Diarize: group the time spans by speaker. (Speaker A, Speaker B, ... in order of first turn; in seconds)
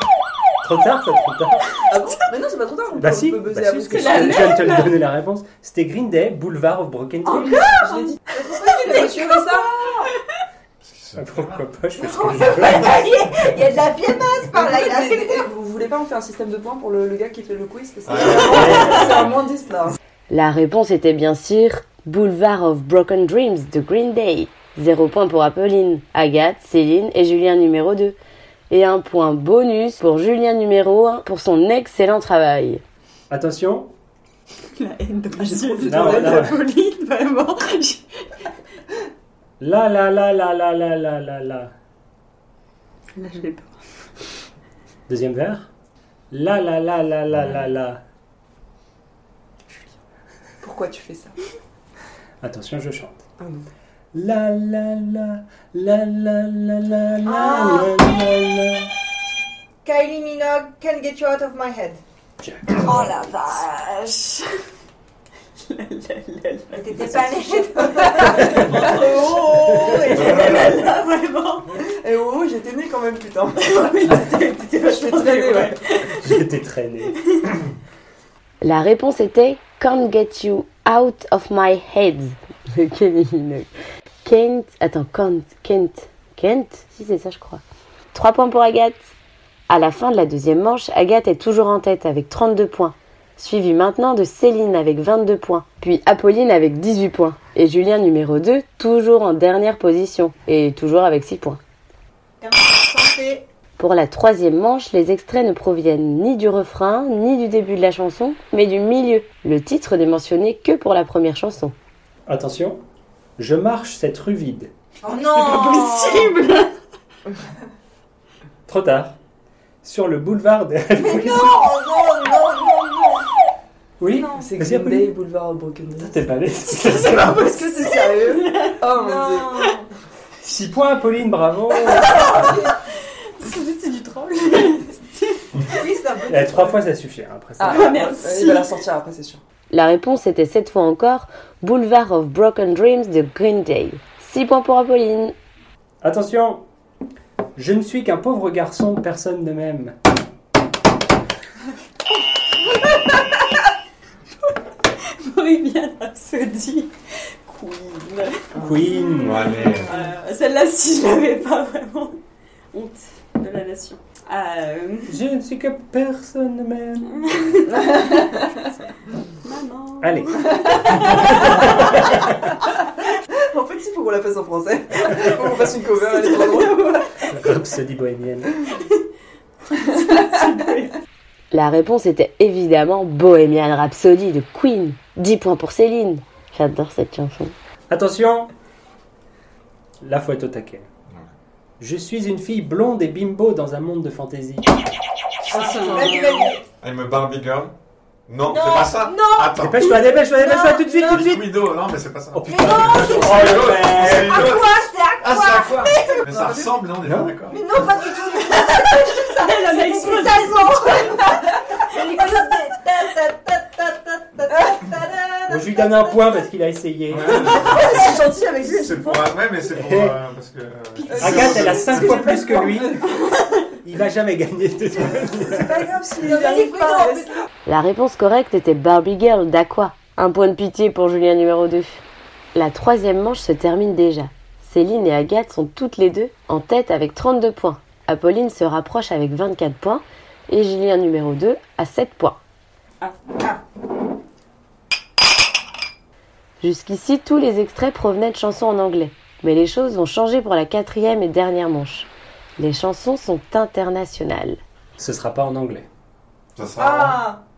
Speaker A: 0.6-1.8, 3.0-7.7, 11.2-12.9, 18.5-19.2, 33.3-33.9, 35.8-36.6, 39.6-41.7, 45.1-45.7, 46.3-48.0, 52.4-53.2, 54.1-58.9, 62.4-63.1, 76.2-77.2, 112.3-112.8, 113.4-114.7, 118.7-119.2, 119.8-121.6, 124.0-125.1, 126.0-127.5, 130.4-132.6, 136.3-137.9, 146.0-146.6, 147.6-149.9, 158.6-159.6, 165.1-167.2, 170.0-172.4, 177.3-178.5, 187.9-188.5, 190.0-190.9, 191.8-194.8, 199.6-201.7, 202.3-204.6, 207.0-207.3, 215.5-217.7, 219.7-220.2, 221.2-223.0, 223.8-225.8, 255.0-255.9
Speaker B: 1.9-4.8, 7.3-10.1, 14.5-20.0, 35.3-36.5, 49.7-49.9, 50.6-51.3, 53.4-53.6, 67.9-70.5, 71.8-74.2, 74.8-75.8, 124.3-126.2, 127.3-129.7, 137.6-139.4, 158.5-160.0, 167.7-168.6, 173.4-177.1, 206.3-206.8, 217.5-219.2, 221.0-223.2, 225.1-227.4
Speaker C: 3.9-5.0, 7.3-8.1, 8.8-9.1, 34.8-38.3, 43.1-43.7, 62.8-64.5, 65.6-71.8, 73.6-76.5, 77.1-77.4, 115.3-116.7, 126.8-128.8, 131.9-132.8, 133.4-135.7, 137.6-138.8, 155.0-156.9, 157.4-158.5, 159.9-162.2, 162.7-165.2, 167.1-168.7, 169.4-172.3, 175.9-177.1, 179.7-181.0, 195.5-196.5, 208.5-211.4
Speaker D: 8.3-9.9, 12.0-15.5, 57.2-57.9, 59.8-62.0, 66.7-69.1, 102.4-103.5, 115.0-116.4, 121.0-123.2, 124.0-124.5, 128.9-129.9, 135.7-136.8, 195.5-196.6, 198.4-201.3, 202.5-206.3, 207.5-216.3, 217.7-218.0, 226.2-227.4, 256.8-257.4
Speaker E: 10.8-11.6, 18.1-19.3, 70.0-70.9, 159.2-159.9, 196.8-197.7, 198.3-200.0, 201.0-207.6, 217.1-222.2, 256.6-257.2
Speaker F: 20.3-28.2, 28.7-32.8, 78.6-83.7, 84.2-87.6, 88.1-89.1, 89.7-101.6, 103.8-111.7, 139.7-145.3, 181.5-187.5, 227.7-232.0, 232.5-242.4, 246.6-254.6